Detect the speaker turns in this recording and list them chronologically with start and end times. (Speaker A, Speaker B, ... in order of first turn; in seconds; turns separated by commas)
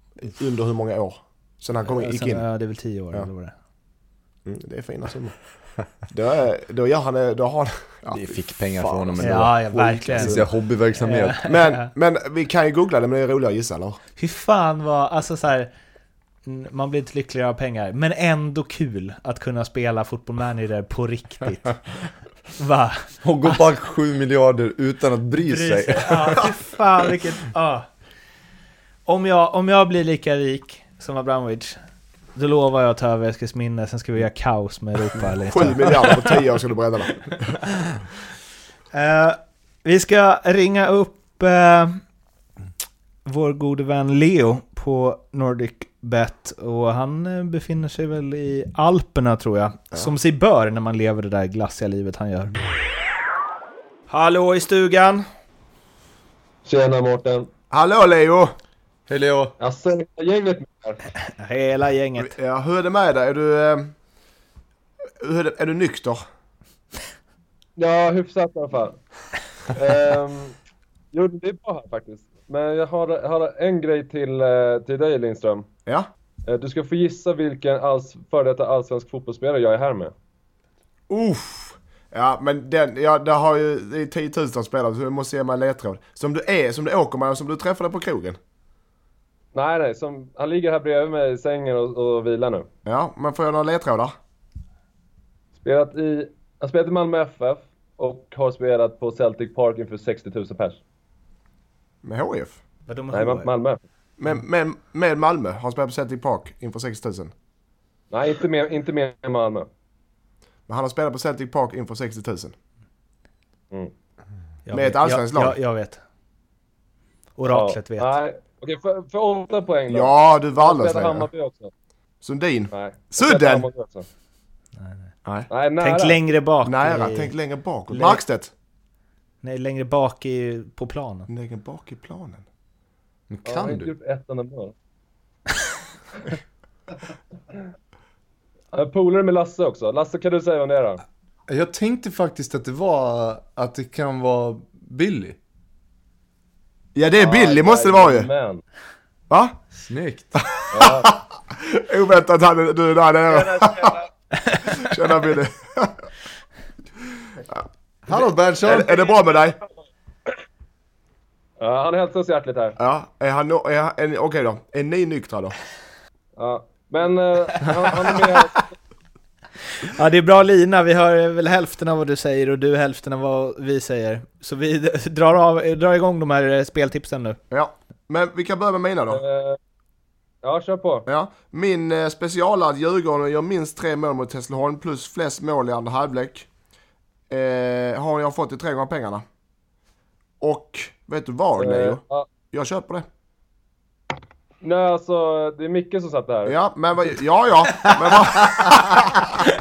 Speaker A: 0.2-2.5, Speaker B: 1.9-3.5, Speaker A: 4.4-10.4, Speaker C: 8.1-11.4, Speaker B: 9.2-11.9, Speaker A: 11.4-14.0, Speaker B: 14.2-15.7, Speaker B: 16.4-21.8, Speaker B: 22.6-23.2, Speaker C: 23.2-26.4, Speaker B: 25.4-27.9, Speaker B: 29.1-31.8, Speaker B: 32.3-36.3, Speaker A: 35.5-37.6, Speaker B: 38.9-42.0, Speaker B: 43.2-52.5, Speaker B: 54.1-55.2, Speaker D: 56.6-57.5, Speaker A: 57.7-58.5, Speaker C: 59.1-59.5, Speaker D: 59.6-61.0, Speaker B: 61.2-62.4, Speaker A: 62.2-63.9, Speaker A: 65.2-66.2, Speaker D: 67.8-69.0, Speaker D: 69.7-70.6, Speaker D: 71.1-75.7, Speaker D: 76.5-80.1, Speaker A: 81.1-88.4, Speaker D: 89.5-92.7, Speaker A: 92.8-94.1, Speaker D: 95.6-100.8, Speaker A: 102.0-102.6, Speaker B: 102.9-103.5, Speaker D: 103.1-103.8, Speaker A: 104.2-107.3, Speaker D: 108.1-109.7, Speaker A: 110.7-112.5, Speaker B: 114.7-116.0, Speaker A: 114.7-115.6, Speaker B: 117.4-118.2, Speaker D: 117.5-121.7, Speaker A: 119.9-121.3, Speaker A: 122.2-123.7, Speaker D: 122.7-124.1, Speaker B: 124.8-125.1, Speaker D: 125.5-126.2, Speaker B: 125.8-127.3, Speaker A: 126.6-128.5, Speaker B: 127.9-128.2, Speaker B: 129.4-131.3, Speaker A: 131.3-132.4, Speaker C: 133.3-133.9, Speaker D: 133.4-134.7, Speaker D: 138.7-141.0, Speaker C: 141.5-145.4, Speaker A: 146.9-148.3, Speaker D: 147.2-148.6, Speaker A: 149.3-149.6, Speaker C: 149.7-150.4, Speaker A: 150.3-154.0, Speaker D: 150.7-151.1, Speaker D: 153.3-154.0, Speaker B: 154.4-154.8, Speaker A: 154.6-156.1, Speaker C: 158.1-159.0, Speaker A: 158.6-159.6, Speaker D: 161.6-162.8, Speaker A: 162.8-165.6, Speaker D: 166.4-168.7, Speaker B: 169.8-177.4, Speaker A: 177.5-179.2, Speaker D: 179.1-179.6, Speaker D: 180.4-181.1, Speaker A: 181.1-186.5, Speaker A: 187.3-189.2, Speaker A: 190.4-193.1, Speaker D: 191.6-192.3, Speaker D: 194.6-196.5, Speaker A: 196.4-199.3